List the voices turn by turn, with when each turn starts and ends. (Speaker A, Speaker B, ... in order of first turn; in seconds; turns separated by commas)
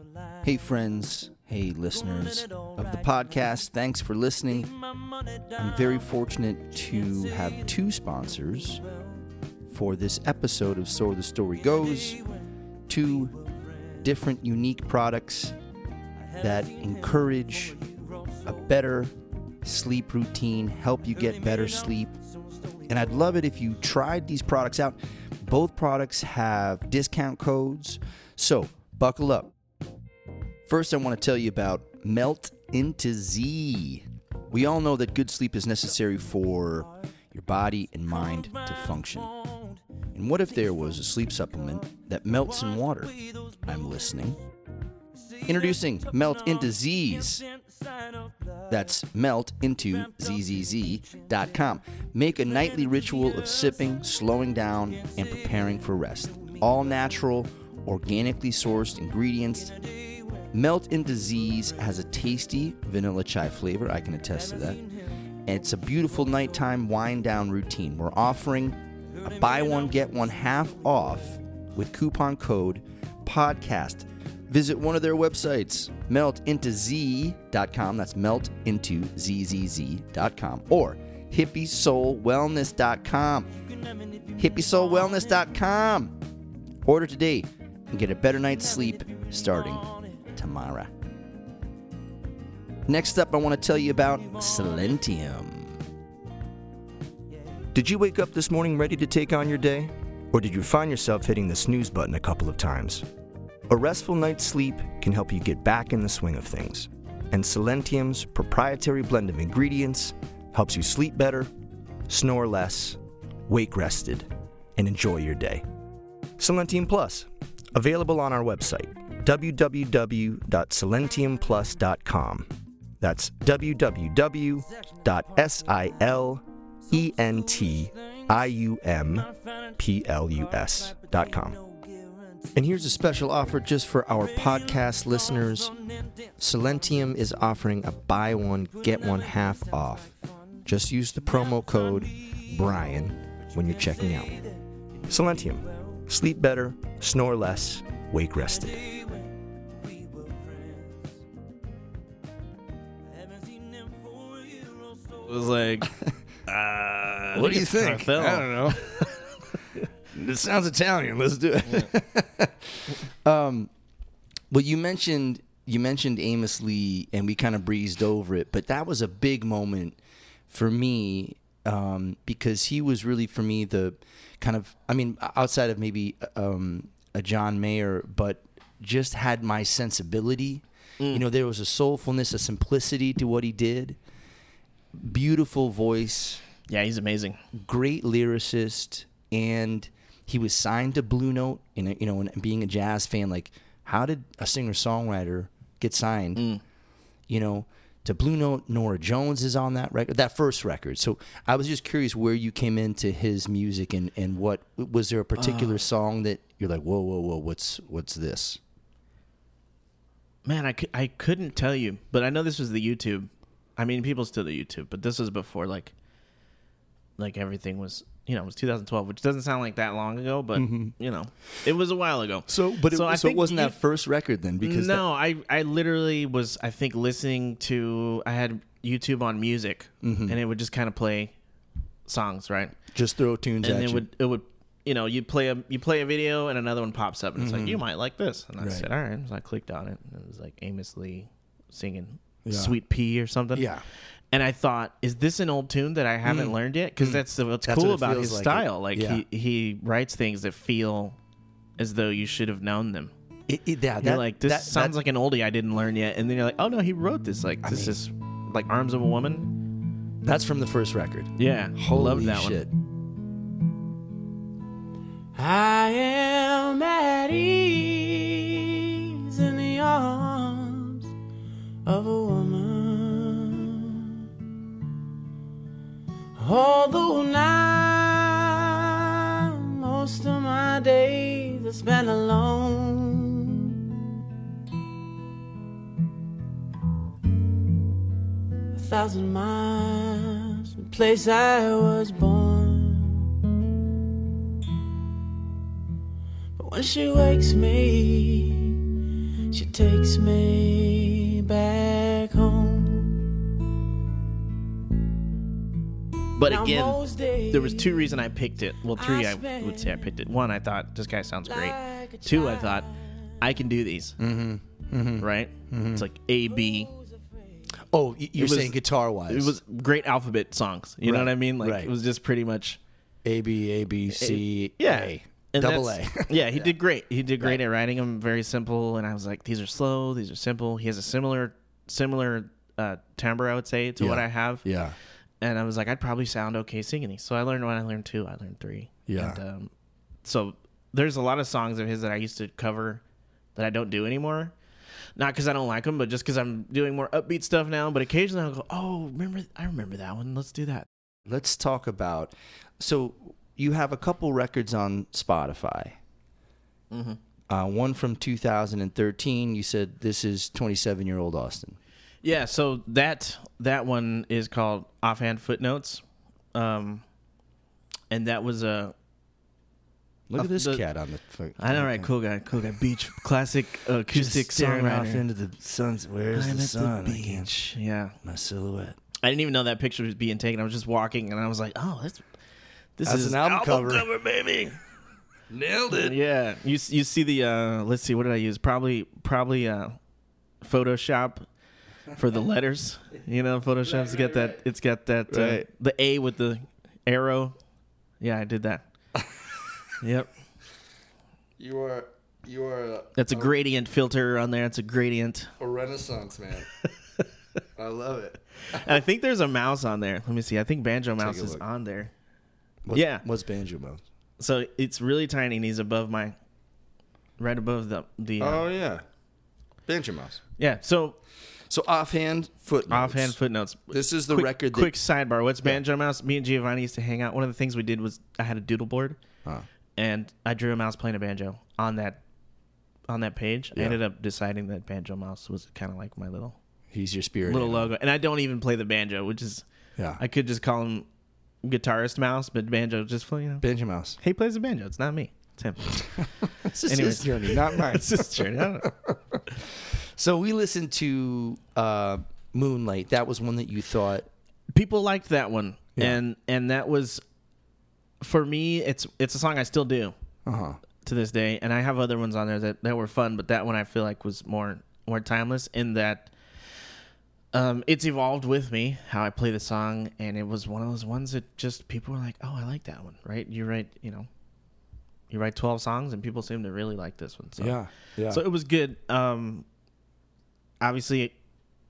Speaker A: 0.4-4.7, Speaker A: 5.5-8.8, Speaker A: 9.7-12.2, Speaker A: 12.9-13.4, Speaker A: 13.9-15.6, Speaker A: 16.4-17.9, Speaker A: 18.4-22.1, Speaker A: 22.9-29.5, Speaker A: 30.7-39.3, Speaker A: 40.1-44.4, Speaker A: 45.5-47.5, Speaker A: 48.7-60.0, Speaker A: 60.5-64.8, Speaker A: 65.5-83.5, Speaker A: 84.4-86.2, Speaker A: 86.8-90.9, Speaker A: 92.9-95.8, Speaker A: 97.7-103.0, Speaker A: 103.7-111.5, Speaker A: 112.1-115.6, Speaker A: 116.4-122.5, Speaker A: 123.0-131.6, Speaker A: 132.5-135.8, Speaker A: 136.4-140.1, Speaker A: 140.7-144.5, Speaker A: 145.1-149.1, Speaker B: 155.2-155.9, Speaker A: 155.8-156.1, Speaker B: 156.5-159.2, Speaker A: 157.3-159.1, Speaker A: 160.1-163.7, Speaker A: 164.5-170.0, Speaker A: 170.5-184.0, Speaker A: 184.9-186.4, Speaker B: 186.7-187.4, Speaker A: 187.5-196.4, Speaker B: 196.4-196.6, Speaker A: 197.3-208.6, Speaker B: 205.4-205.8, Speaker B: 210.4-215.9, Speaker B: 217.2-223.8, Speaker A: 220.6-220.9, Speaker A: 222.5-225.0, Speaker B: 224.6-231.3, Speaker A: 230.0-230.4, Speaker B: 232.1-232.8, Speaker A: 232.9-234.1, Speaker B: 233.6-243.7, Speaker A: 237.4-237.8, Speaker A: 238.6-238.9, Speaker A: 242.4-242.8, Speaker A: 243.5-243.8, Speaker B: 244.3-251.2, Speaker A: 246.2-249.2, Speaker B: 251.8-253.1, Speaker A: 253.5-254.9, Speaker B: 254.0-259.5, Speaker A: 257.6-258.0, Speaker A: 260.2-262.7, Speaker B: 261.4-262.6, Speaker C: 265.4-271.1, Speaker C: 271.9-274.2, Speaker C: 276.4-283.8, Speaker C: 288.7-293.3, Speaker C: 296.6-298.8, Speaker C: 299.5-303.3, Speaker B: 306.4-314.2, Speaker C: 306.4-308.3, Speaker C: 309.0-310.1, Speaker C: 311.5-313.1, Speaker A: 314.2-316.1, Speaker B: 315.2-316.9, Speaker C: 316.6-317.2, Speaker A: 317.9-319.6, Speaker B: 318.4-318.8, Speaker B: 319.3-322.8, Speaker A: 321.0-321.9, Speaker A: 323.2-326.7, Speaker B: 324.1-334.6, Speaker A: 334.0-334.9, Speaker B: 335.4-339.7, Speaker A: 339.1-339.4, Speaker B: 340.2-343.0, Speaker B: 343.6-344.6, Speaker B: 345.2-350.9, Speaker A: 351.3-356.0, Speaker B: 356.9-357.2, Speaker A: 357.5-361.8, Speaker B: 362.2-366.0, Speaker B: 366.5-367.0, Speaker B: 368.1-368.9, Speaker A: 370.3-372.1, Speaker B: 370.4-370.8, Speaker B: 371.6-375.2, Speaker A: 374.1-377.5, Speaker B: 376.3-378.2, Speaker A: 378.2-379.0, Speaker B: 379.2-382.2, Speaker B: 383.0-384.8, Speaker A: 383.1-384.7, Speaker A: 385.5-386.2, Speaker B: 385.9-390.0, Speaker B: 390.6-391.5, Speaker B: 392.1-397.6, Speaker A: 393.9-394.6, Speaker A: 395.3-395.6, Speaker B: 398.2-398.9, Speaker B: 400.0-400.3, Speaker A: 401.6-403.5, Speaker B: 403.2-405.5, Speaker A: 405.6-406.7, Speaker A: 407.8-408.9, Speaker B: 408.7-412.1, Speaker A: 411.2-411.6, Speaker A: 412.9-414.0, Speaker B: 412.9-413.2, Speaker B: 414.4-416.4, Speaker B: 417.4-418.7, Speaker A: 418.4-419.0, Speaker A: 419.9-420.4, Speaker B: 420.6-421.2, Speaker A: 421.7-423.4, Speaker B: 422.9-429.2, Speaker A: 423.9-424.9, Speaker B: 430.0-432.2, Speaker B: 433.1-436.6, Speaker A: 436.9-437.9, Speaker B: 437.5-439.6, Speaker B: 440.2-441.1, Speaker B: 441.6-443.6, Speaker A: 443.6-444.2, Speaker B: 444.2-446.3, Speaker A: 446.6-454.3, Speaker B: 446.8-448.9, Speaker B: 454.7-457.2, Speaker B: 458.2-460.1, Speaker A: 460.5-460.8, Speaker B: 461.0-466.3, Speaker B: 467.5-474.3, Speaker B: 475.3-477.8, Speaker A: 477.6-478.4, Speaker B: 478.3-479.6, Speaker B: 480.8-481.4